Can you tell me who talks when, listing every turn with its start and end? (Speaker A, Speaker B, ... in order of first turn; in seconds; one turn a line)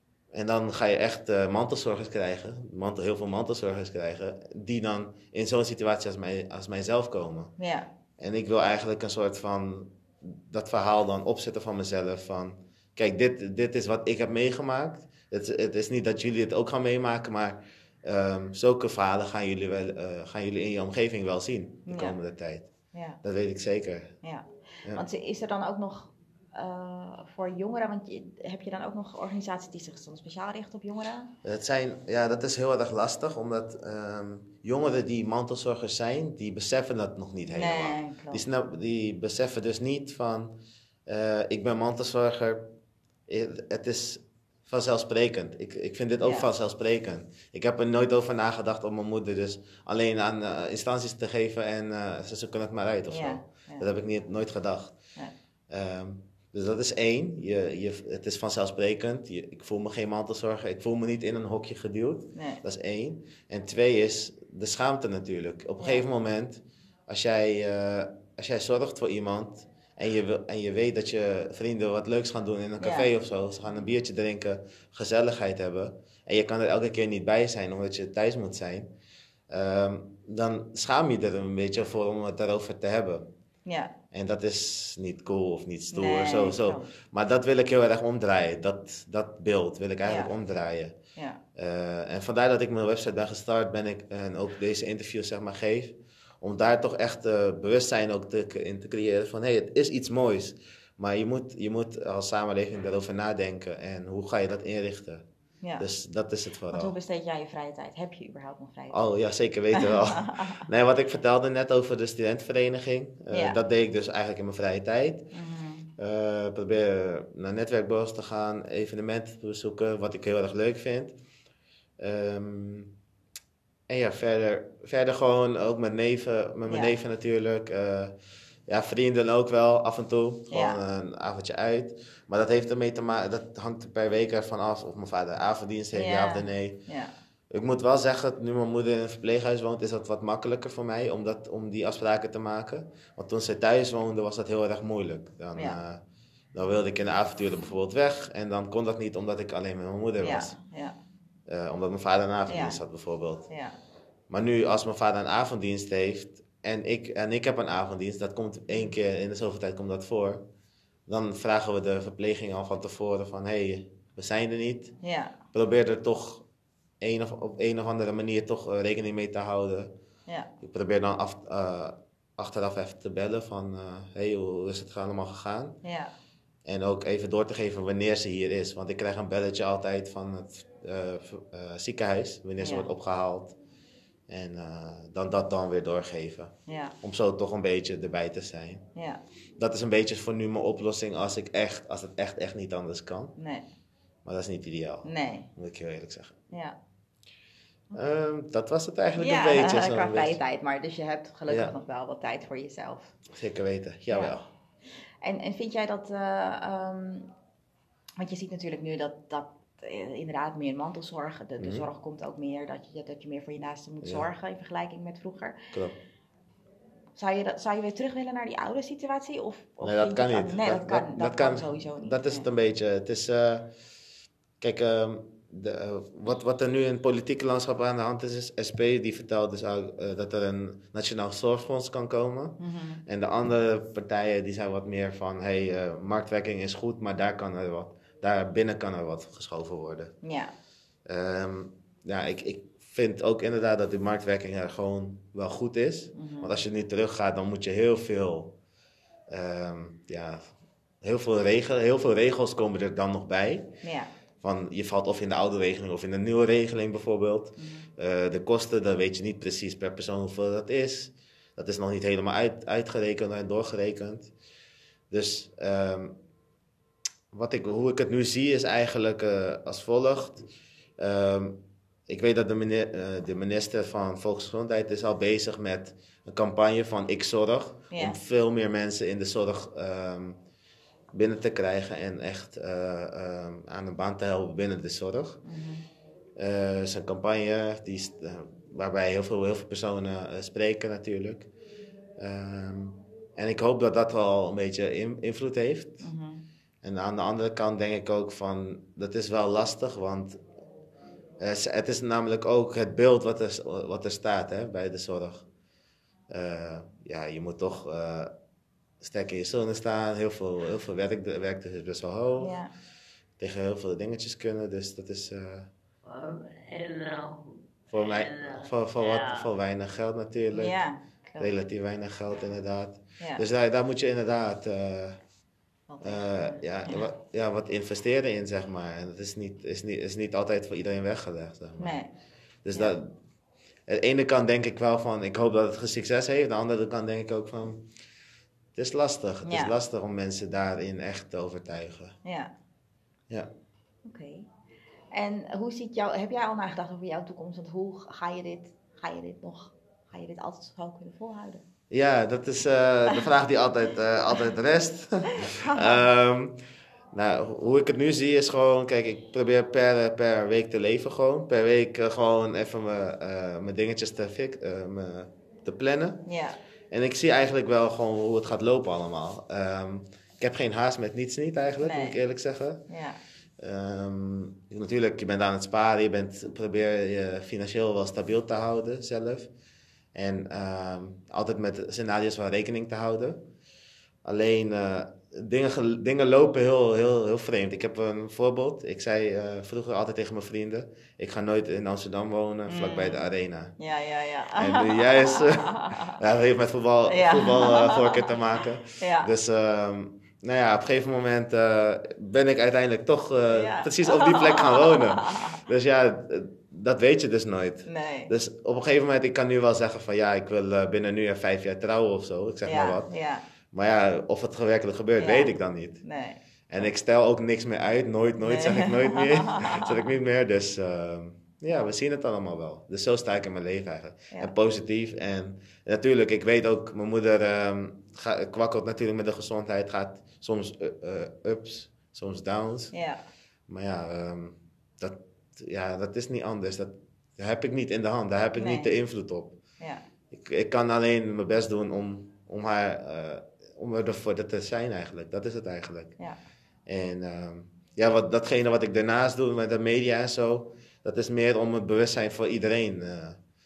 Speaker A: 0.3-7.5
Speaker B: 7.6-7.9
Speaker A: 8.2-22.7
Speaker B: 21.9-22.2
Speaker B: 22.9-23.2
Speaker A: 23.2-24.1
Speaker B: 24.2-31.3
Speaker A: 31.4-40.5
Speaker B: 37.5-38.4
Speaker A: 41.1-42.7
Speaker A: 43.3-55.0
Speaker B: 46.2-46.5
Speaker B: 53.1-53.9
Speaker A: 55.7-78.9
Speaker B: 62.4-62.6
Speaker B: 65.8-66.0
Speaker B: 72.8-73.1
Speaker A: 79.5-83.3
Speaker B: 83.7-83.9
Speaker A: 84.1-91.0
Speaker B: 85.9-86.9
Speaker B: 90.0-90.3
Speaker B: 91.2-91.4
Speaker A: 91.5-105.2
Speaker B: 105.6-105.9
Speaker A: 105.8-106.9
Speaker B: 106.7-109.1
Speaker A: 108.9-115.3
Speaker B: 109.8-110.6
Speaker B: 113.3-113.6
Speaker B: 115.3-115.9
Speaker A: 116.0-121.2
Speaker A: 122.0-122.9
Speaker A: 123.9-128.2
Speaker B: 126.7-127.0
Speaker A: 128.7-136.8
Speaker B: 130.5-130.8
Speaker B: 135.9-137.1
Speaker A: 137.5-146.0
Speaker A: 146.5-150.6
Speaker B: 150.2-151.0
Speaker A: 151.5-153.5
Speaker B: 152.5-152.8
Speaker B: 153.5-153.8
Speaker A: 154.3-160.4
Speaker A: 161.1-164.9
Speaker B: 165.0-165.4
Speaker A: 165.5-166.4
Speaker A: 167.0-169.9
Speaker A: 170.6-175.8
Speaker B: 175.8-176.1
Speaker A: 176.7-183.6
Speaker B: 182.6-182.9
Speaker A: 184.3-188.8
Speaker B: 186.7-187.0
Speaker B: 188.9-189.2
Speaker A: 189.6-193.3
Speaker B: 193.4-193.7
Speaker A: 194.2-196.4
Speaker B: 195.0-195.5
Speaker B: 196.5-196.8
Speaker A: 197.9-200.4
Speaker B: 199.2-203.1
Speaker A: 201.5-201.7
Speaker A: 203.3-204.5
Speaker B: 204.1-204.3
Speaker B: 205.2-207.3
Speaker B: 208.2-215.6
Speaker A: 211.6-211.8
Speaker A: 215.7-216.0
Speaker B: 217.2-222.5
Speaker A: 219.8-223.7
Speaker A: 224.6-240.1
Speaker B: 232.6-233.0
Speaker B: 240.2-240.5
Speaker A: 241.1-248.5
Speaker B: 246.2-246.6
Speaker A: 249.3-250.5
Speaker A: 251.0-253.7
Speaker B: 253.8-254.1
Speaker A: 254.4-264.3
Speaker B: 257.6-257.9
Speaker A: 265.1-266.2
Speaker A: 267.3-270.4
Speaker A: 271.0-280.4
Speaker B: 277.9-278.2
Speaker A: 281.1-285.4
Speaker B: 285.4-285.9
Speaker A: 286.4-291.5
Speaker A: 292.2-296.1
Speaker B: 296.0-296.4
Speaker A: 296.8-300.4
Speaker A: 301.4-305.5
Speaker A: 306.3-308.3
Speaker A: 309.0-312.6
Speaker B: 312.4-312.7
Speaker A: 313.4-315.7
Speaker C: 316.1-319.5
Speaker A: 317.9-320.8
Speaker B: 320.5-321.5
Speaker A: 321.4-325.2
Speaker B: 325.9-327.1
Speaker A: 326.0-332.0
Speaker B: 331.8-332.1
Speaker A: 332.6-333.1
Speaker A: 333.9-337.9
Speaker A: 338.8-342.2
Speaker B: 339.4-339.8
Speaker B: 342.2-342.5
Speaker B: 344.1-344.5
Speaker B: 345.1-351.6
Speaker A: 351.9-366.2
Speaker B: 355.3-356.0
Speaker B: 366.3-366.6
Speaker A: 366.9-372.8
Speaker B: 371.8-372.2
Speaker B: 372.9-373.2
Speaker A: 373.6-379.5
Speaker A: 380.1-383.4
Speaker A: 384.2-393.8
Speaker B: 392.7-393.2
Speaker B: 393.8-396.2
Speaker A: 394.6-413.1
Speaker B: 397.1-398.4
Speaker B: 399.0-399.3
Speaker B: 403.5-405.6
Speaker B: 407.9-408.3
Speaker B: 412.6-413.4
Speaker A: 413.7-416.0
Speaker B: 415.2-416.9
Speaker A: 416.7-432.9
Speaker B: 418.4-420.0
Speaker B: 432.9-433.2
Speaker A: 433.7-439.6
Speaker B: 438.6-439.0
Speaker B: 439.8-440.1
Speaker A: 440.3-446.1
Speaker A: 446.9-453.4